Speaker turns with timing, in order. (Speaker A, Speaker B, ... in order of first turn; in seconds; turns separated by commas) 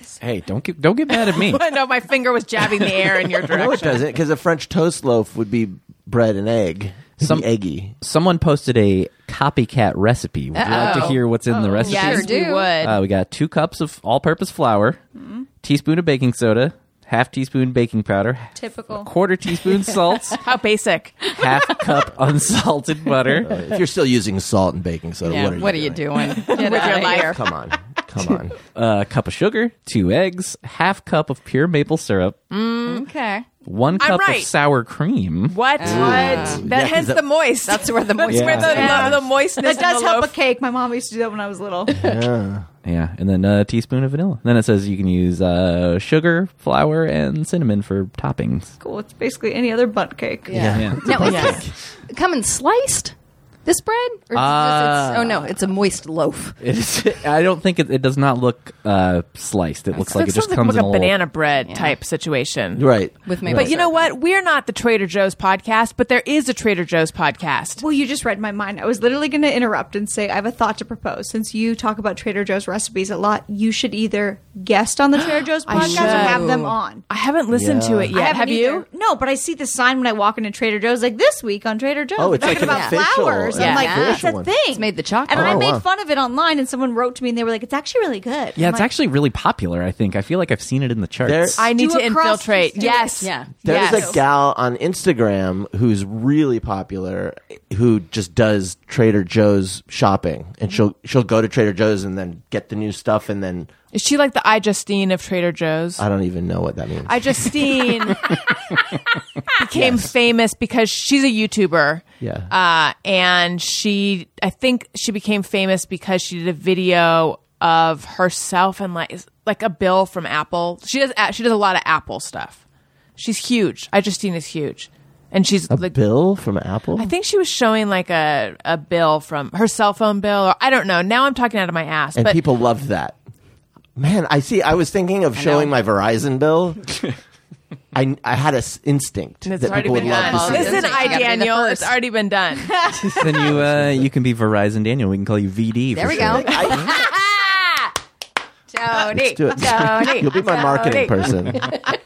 Speaker A: 0.2-1.6, Speaker B: 1.1-4.0, Speaker C: 3.5-7.9, Speaker A: 7.2-7.5, Speaker A: 8.0-15.0, Speaker D: 10.5-11.2, Speaker B: 10.7-11.2, Speaker E: 11.5-12.3, Speaker D: 11.8-12.7, Speaker B: 11.8-13.0, Speaker E: 15.2-15.4, Speaker A: 15.6-20.4, Speaker E: 18.6-19.1, Speaker B: 20.4-21.4, Speaker A: 21.3-23.6, Speaker C: 23.4-26.0, Speaker D: 25.2-27.4, Speaker B: 26.3-27.4, Speaker C: 27.0-28.6, Speaker A: 28.7-32.4, Speaker B: 32.5-33.0, Speaker D: 32.8-33.5, Speaker A: 33.6-35.6, Speaker B: 34.0-34.5, Speaker B: 35.5-40.3, Speaker D: 35.8-36.6, Speaker C: 35.8-37.2, Speaker D: 37.6-39.2, Speaker A: 38.3-39.1, Speaker E: 38.7-39.1, Speaker E: 39.6-42.1, Speaker C: 41.9-42.7, Speaker A: 42.8-48.7, Speaker E: 48.8-51.5, Speaker D: 50.5-53.1, Speaker C: 50.5-51.7, Speaker A: 50.7-51.5, Speaker B: 51.2-51.6, Speaker D: 53.6-56.6, Speaker A: 54.3-55.5, Speaker A: 56.6-61.1, Speaker B: 60.0-62.8, Speaker D: 61.7-62.0, Speaker C: 62.8-63.7, Speaker D: 63.2-64.1, Speaker B: 63.5-67.8, Speaker E: 67.8-77.0, Speaker B: 75.7-76.5, Speaker D: 75.7-76.8, Speaker B: 77.1-78.8, Speaker C: 77.5-78.1, Speaker E: 78.1-88.9, Speaker C: 82.2-84.5, Speaker D: 82.5-83.0, Speaker B: 83.5-83.9, Speaker D: 83.6-85.6, Speaker C: 85.3-85.8, Speaker A: 88.5-91.6, Speaker C: 91.2-91.6, Speaker B: 91.6-94.2, Speaker E: 91.6-94.2, Speaker D: 93.2-93.5, Speaker C: 93.6-103.7, Speaker B: 103.9-106.0, Speaker C: 106.0-107.5, Speaker B: 107.0-108.3, Speaker B: 109.5-122.6, Speaker C: 109.7-110.1, Speaker C: 112.2-112.5, Speaker B: 123.2-125.9, Speaker C: 125.7-127.1, Speaker B: 127.0-132.4, Speaker C: 132.1-133.2, Speaker C: 133.9-136.9, Speaker D: 135.4-135.7, Speaker C: 137.9-140.9, Speaker B: 139.4-142.8, Speaker D: 139.7-141.9, Speaker E: 140.6-140.8, Speaker E: 142.7-143.5, Speaker A: 142.9-146.7, Speaker C: 143.5-144.1, Speaker D: 145.9-147.9, Speaker C: 146.0-147.1, Speaker D: 148.7-151.8, Speaker C: 149.1-151.8, Speaker B: 150.8-151.1